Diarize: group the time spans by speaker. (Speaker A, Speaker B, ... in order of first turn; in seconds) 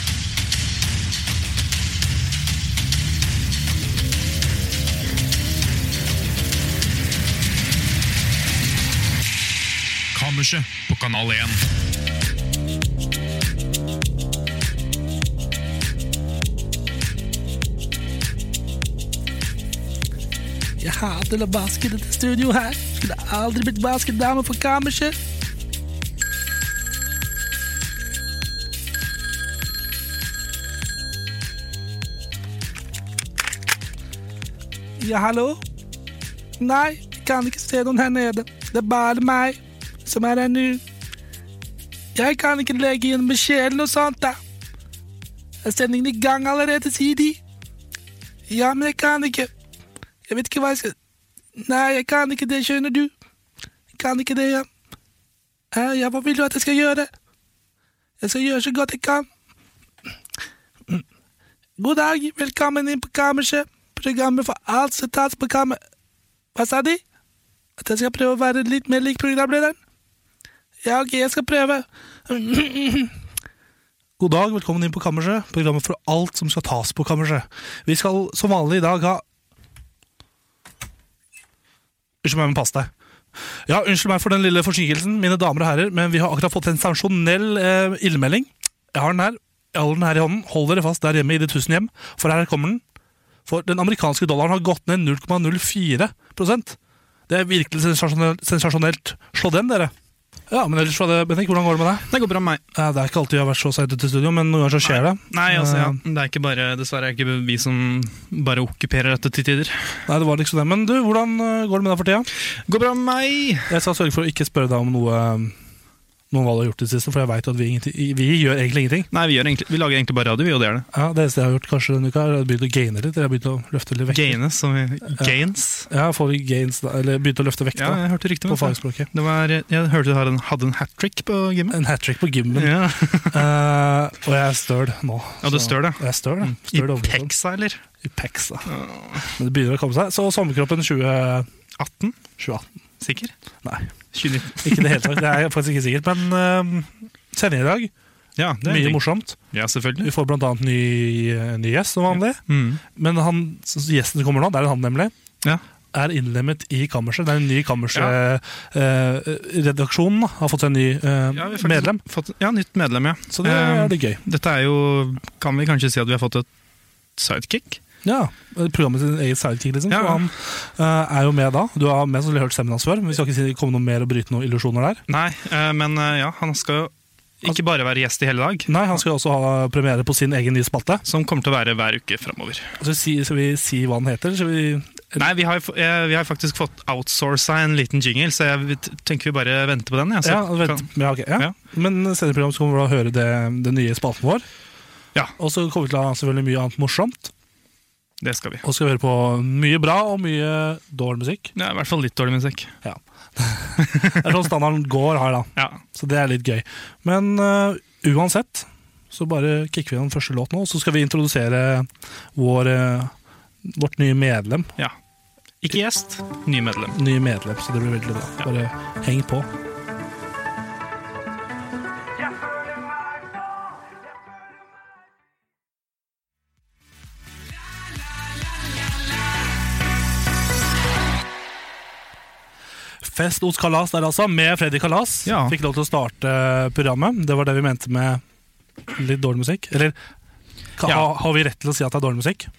Speaker A: 10.1-11.6, 102.1-102.6, 104.8-110.0, 112.7-113.7, 119.1-120.9, 124.1-125.9, 127.8-131.8, 132.5-133.4, 135.4-137.8, 141.8-142.2, 143.0-143.3, 144.1-145.2, 148.4-150.1, 152.1-152.8, 161.3-166.5, 167.2-167.8, 169.9-170.2, 175.1-176.9, 177.4-178.7, 181.1-182.8, 185.2-191.6, 198.2-198.7, 201.6-202.7, 203.9-204.2, 205.6-205.8, 215.6-217.0, 235.3-235.6
Speaker B: 20.8-25.2, 35.0-35.6, 36.6-40.8, 42.1-44.4, 45.6-47.4, 48.5-49.5, 50.3-51.0, 51.6-53.1, 54.0-54.7, 55.7-57.1, 58.2-59.3, 61.8-65.8, 66.5-67.0, 67.8-69.8, 70.8-73.1, 74.2-79.2, 82.2-82.9, 83.7-92.8, 93.5-96.8, 97.3-99.9, 100.5-102.1, 102.7-106.0, 110.1-112.3, 113.7-115.6, 116.3-119.1, 120.9-124.4, 125.9-129.1, 131.7-137.3, 138.0-141.5, 142.4-142.7, 144.4-147.9, 148.6-149.4, 150.0-155.1, 155.9-162.0, 163.3-164.2, 168.0-175.0, 178.7-181.1, 182.8-185.3, 190.2-194.4, 195.4-197.3, 198.6-201.5, 202.8-213.1, 213.6-214.7, 216.9-219.5, 233.0-238.2, 238.9-240.0, 240.8-242.5